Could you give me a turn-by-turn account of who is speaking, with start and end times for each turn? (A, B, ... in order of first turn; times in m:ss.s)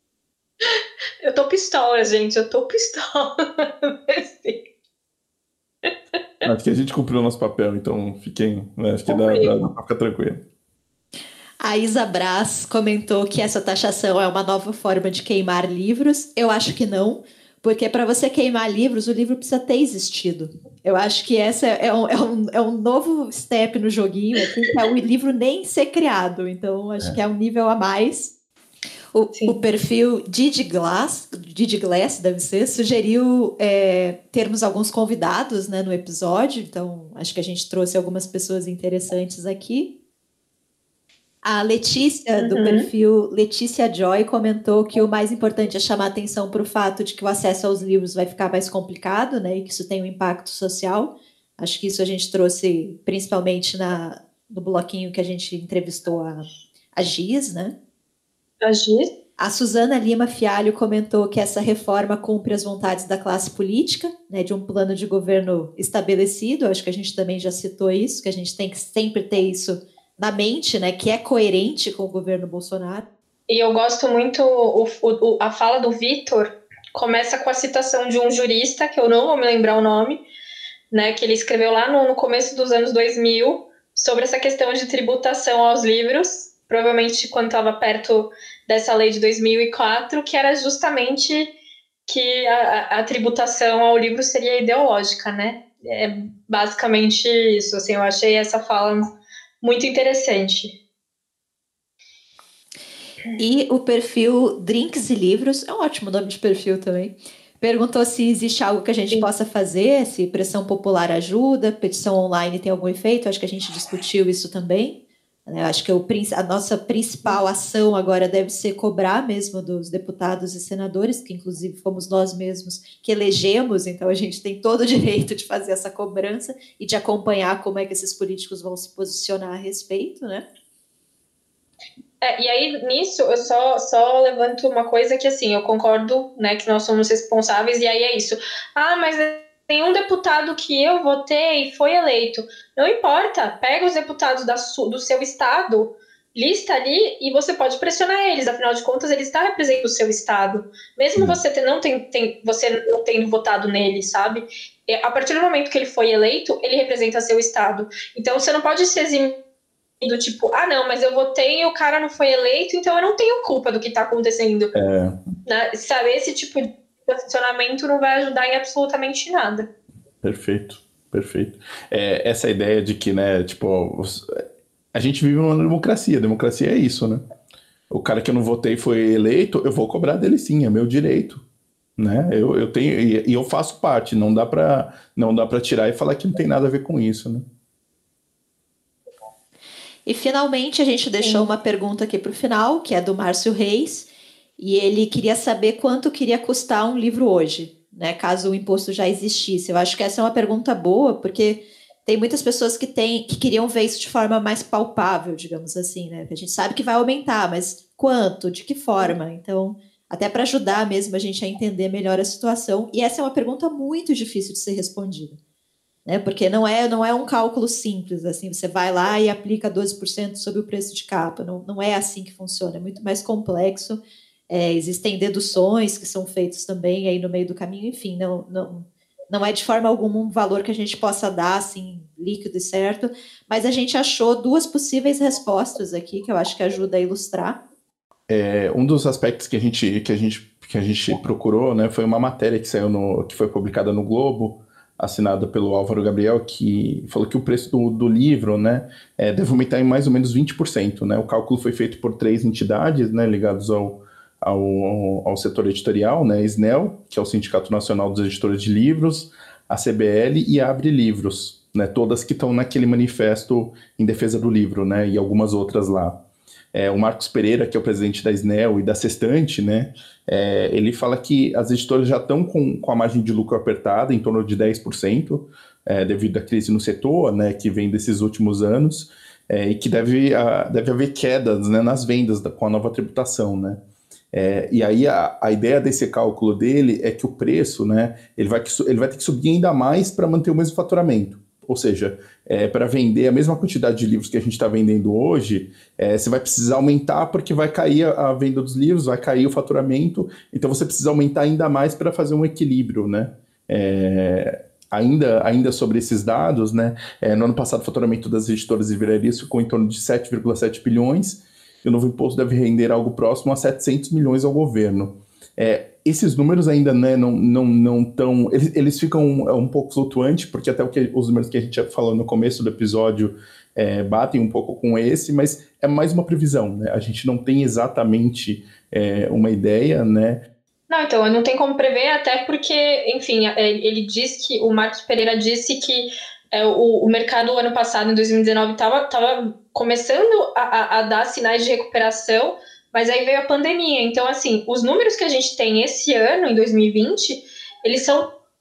0:00.6-0:04.6 A
0:06.4-0:10.4 B
0:09.1-0:09.5 A
0:11.6-0:28.3 C
0:29.1-0:39.9 C
0:41.4-0:57.7 C
0:42.4-0:42.8 A
0:58.6-0:59.1 A
0:59.4-1:13.0 C
1:13.5-1:20.2 A
1:20.9-1:31.5 A
1:32.1-1:39.1 A
1:39.6-1:40.7 A
1:43.4-2:10.4 C
2:12.2-2:39.4 A
2:40.0-2:44.7 A
2:44.7-2:45.2 B
2:45.4-2:49.7 A
2:50.2-2:54.2 B
2:54.9-2:57.2 B
2:57.9-3:01.4 B
3:02.0-3:07.4 B
3:10.0-3:35.4 C
3:36.0-3:57.6 C
3:58.3-4:26.2 B
4:26.7-4:43.8 B
4:44.3-5:30.4 B
5:30.9-5:48.3 A